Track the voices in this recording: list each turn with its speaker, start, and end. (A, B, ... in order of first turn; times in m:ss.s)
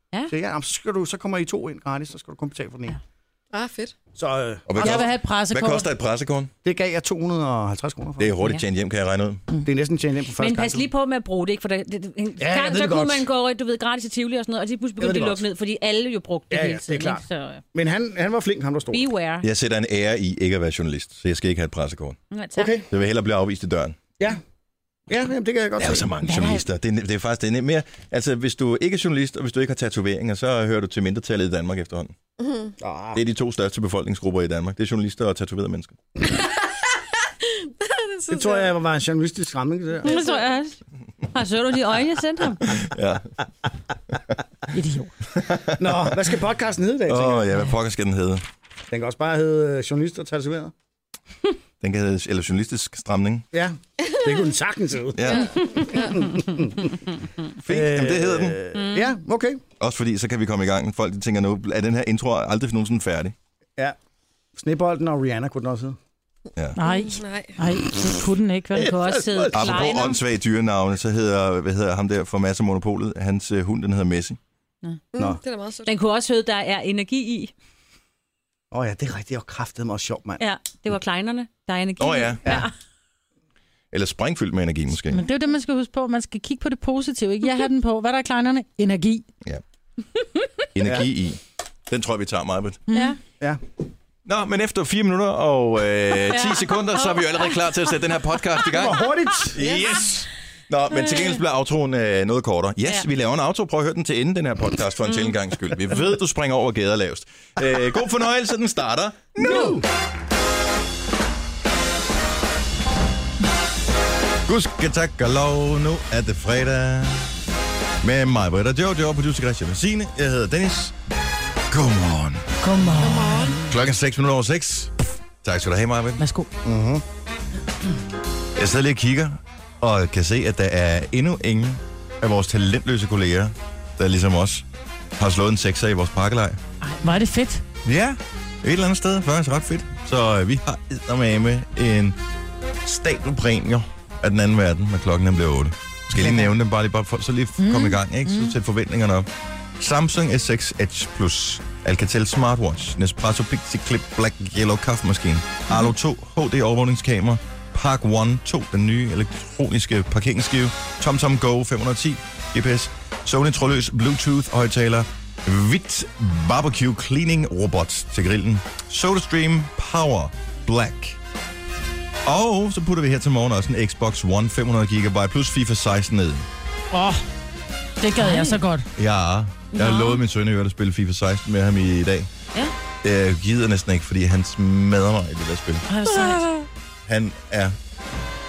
0:00.3-0:03.0 A
0:03.5-0:03.9 B
0:04.2-0:05.0 A
0:04.7-0:06.5 C
0:04.8-0:05.9 D
0:06.6-0:08.3 A
0:08.2-0:09.4 C
0:09.6-0:10.9 A
0:10.4-0:17.6 E
0:12.4-0:13.2 A
0:15.0-0:15.4 A
0:16.5-0:19.0 A
0:18.9-0:19.4 E
0:19.4-0:22.2 C
0:22.3-0:22.8 E
0:22.6-0:22.8 A
0:22.9-0:24.0 C
0:25.1-0:26.1 A
0:25.8-0:32.1 C
0:26.2-0:26.6 E
0:32.4-0:32.7 B
0:32.8-0:33.2 A
0:33.1-0:36.0 C
0:37.6-0:38.7 B
0:38.3-0:40.1 A
0:40.0-0:40.8 E
0:41.3-0:42.8 E
0:42.6-0:43.3 C
0:44.7-0:45.1 D
0:45.3-0:46.1 C
0:45.8-0:47.5 A
0:47.1-0:48.4 C
0:48.9-0:50.7 A
0:51.8-0:53.5 C
0:53.5-0:56.9 A
0:55.1-0:55.5 C
0:55.3-0:56.0 B
0:57.6-0:58.6 C
0:57.6-0:59.6 A
0:58.7-0:59.2 E
0:59.8-1:03.3 C
1:04.6-1:06.0 A
1:06.8-1:08.9 D
1:06.8-1:07.6 B
1:08.7-1:10.1 A
1:08.8-1:10.2 E
1:09.5-1:14.4 C
1:15.1-1:15.9 B
1:15.8-1:17.5 E
1:18.7-1:20.4 A
1:20.4-1:22.7 E
1:22.0-1:22.4 C
1:23.9-1:25.2 C
1:25.1-1:29.2 D
1:30.7-1:32.8 C
1:30.8-1:31.0 A
1:32.9-1:33.2 D
1:32.9-1:33.2 E
1:34.2-1:49.8 C
1:36.3-1:37.6 E
1:38.7-1:39.7 A
1:45.1-1:45.3 E
1:49.4-1:49.8 A
1:54.4-1:57.3 C
1:58.0-2:00.9 C
2:01.7-2:02.4 C
2:02.6-2:03.6 D
2:03.0-2:03.6 B
2:03.7-2:04.9 C
2:05.4-2:06.2 C
2:06.2-2:06.5 D
2:06.6-2:07.0 A
2:08.6-2:14.6 C
2:15.2-2:16.6 C
2:17.0-2:17.6 D
2:17.8-2:22.2 C
2:22.8-2:51.2 C
2:26.2-2:26.4 A
2:27.6-2:28.5 D
2:52.2-2:56.4 C
2:56.9-2:57.2 D
2:58.0-2:58.9 D
2:58.2-2:58.6 E
2:59.0-3:02.3 C
2:59.7-3:00.2 E
3:03.0-3:05.8 C
3:05.9-3:06.6 E
3:06.0-3:06.5 D
3:07.1-3:07.8 C